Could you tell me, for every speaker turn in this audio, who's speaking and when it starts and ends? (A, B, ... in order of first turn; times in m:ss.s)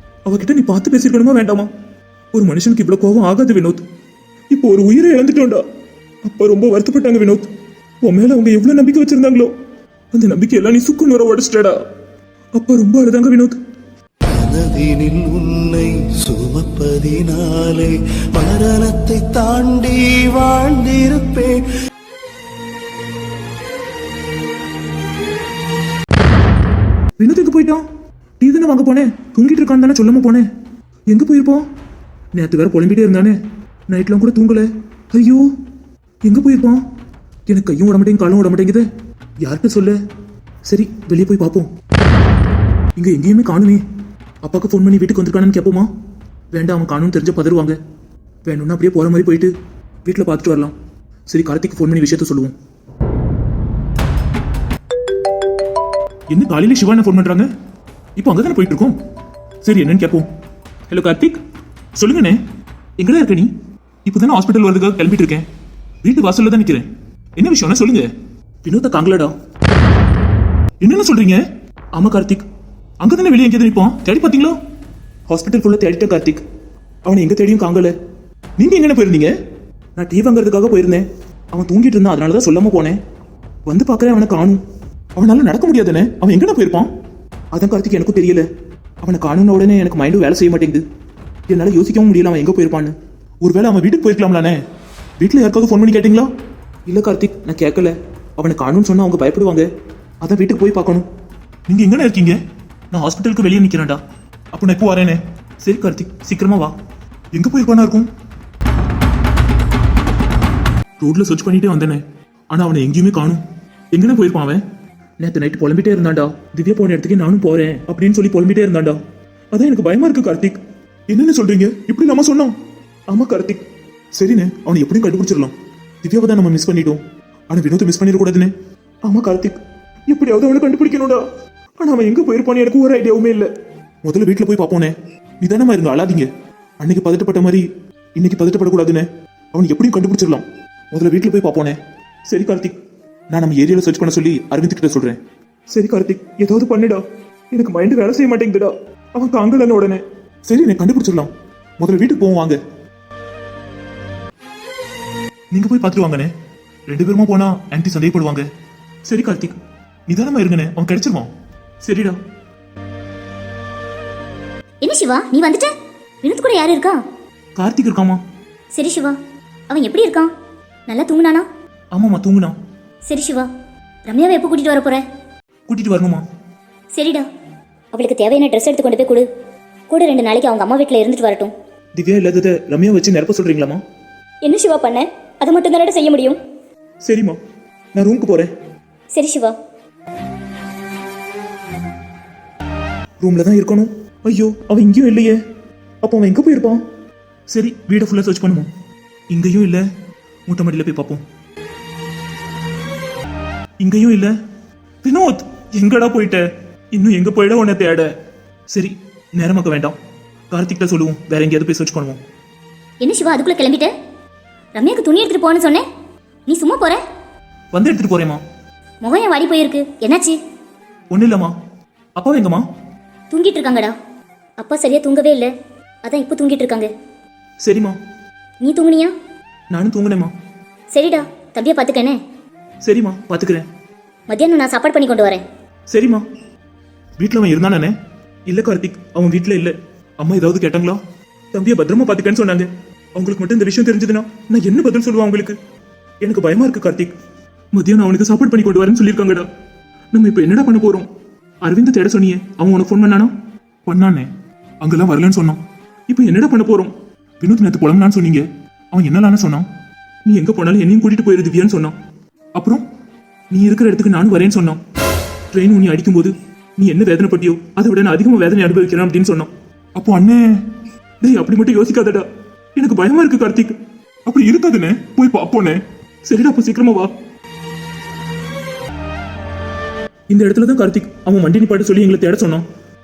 0:00.3-0:01.7 A
0:02.4-0:03.9 A
0:04.5-0:05.6 A
0:06.3-0:07.5 A
0:08.0-0:09.5 A
0:10.1-0:11.8 A
0:12.6-0:13.6 A
0:14.3-0:21.6 B
0:27.2-0:27.8 A
0:28.4-0:30.5 A
0:31.1-0:31.6 A
0:32.3-0:33.4 A
0:33.9-0:35.5 A
0:36.2-0:36.8 A
0:37.5-0:38.8 A
0:39.4-0:40.0 A
0:40.7-0:41.7 A
0:43.0-0:43.8 A
0:44.4-0:45.9 A
0:46.5-0:47.8 A
0:48.4-0:49.5 A
0:50.0-0:50.8 A
0:51.3-0:52.6 A
0:56.3-0:57.5 A
0:58.2-0:59.0 A
0:59.6-1:00.3 A
1:00.9-1:01.4 A
1:02.0-1:02.4 A
1:03.0-1:03.5 A
1:04.0-1:05.5 A
1:06.0-1:08.1 A
1:08.6-1:09.3 A
1:10.8-1:11.4 A
1:12.0-1:12.4 A
1:13.0-1:14.6 A
1:15.3-1:16.4 A
1:17.1-1:17.9 A
1:18.6-1:19.3 A
1:20.0-1:23.0 A
1:23.7-1:24.6 A
1:25.2-1:26.9 A
1:27.5-1:28.5 A
1:29.0-1:30.8 A
1:31.5-1:34.6 A
1:35.2-1:36.3 A
1:36.9-1:39.7 A
1:40.2-1:41.1 A
1:41.7-1:42.4 A
1:42.9-1:44.0 A
1:44.5-1:46.8 A
1:47.3-1:48.1 A
1:51.0-1:54.6 A
1:55.2-1:59.0 A
1:59.5-2:00.6 A
2:01.1-2:02.5 A
2:03.1-2:08.5 A
2:09.1-2:11.2 A
2:11.8-2:13.5 A
2:14.0-2:16.3 A
2:16.8-2:22.8 A
2:23.3-2:25.2 A
2:25.7-2:32.6 A
2:35.5-2:36.3 A
2:36.9-2:38.5 A
2:39.1-2:41.3 A
2:41.8-2:42.2 A
2:44.8-2:45.7 C
2:46.2-2:47.0 C
2:47.6-2:48.2 A
2:48.7-2:49.2 C
2:49.7-2:50.3 C
2:50.9-2:51.5 C
2:51.9-2:52.6 A
2:53.1-2:53.5 C
2:54.1-2:55.0 C
2:55.7-2:56.2 A
2:56.9-2:57.2 C
2:57.9-2:59.2 C
2:59.9-3:01.5 C
3:02.0-3:03.8 A
3:04.4-3:06.4 C
3:07.0-3:07.4 A
3:08.0-3:08.5 A
3:09.2-3:09.5 C
3:13.2-3:15.4 A
3:16.0-3:16.8 A
3:17.5-3:18.7 A
3:19.3-3:19.8 A
3:20.5-3:21.2 A
3:23.8-3:24.3 A
3:25.0-3:28.1 A
3:28.7-3:30.0 A
3:30.5-3:32.2 A
3:33.0-3:33.9 C
3:34.8-3:35.8 C
3:36.5-3:37.0 C
3:37.7-3:38.4 A
3:39.0-3:40.4 C
3:41.1-3:41.5 A
3:42.2-3:42.6 A
3:43.3-3:43.9 C
3:44.6-3:45.5 C
3:46.0-3:46.9 C
3:47.6-3:48.0 A
3:48.6-3:49.1 C
3:49.7-3:50.3 A
3:50.9-3:52.2 C
3:52.8-3:53.7 A
3:54.3-3:55.4 C
3:55.9-3:56.2 A
3:57.2-3:57.9 A
3:58.5-4:01.0 A
4:01.5-4:05.6 A
4:06.2-4:07.1 A
4:07.7-4:09.5 A
4:10.1-4:11.1 A
4:11.6-4:13.3 A
4:13.9-4:14.3 A
4:14.8-4:19.7 A
4:20.3-4:22.0 A
4:22.6-4:22.8 A
4:23.5-4:24.8 A
4:25.5-4:30.4 A
4:31.2-4:37.1 A
4:40.3-4:42.7 A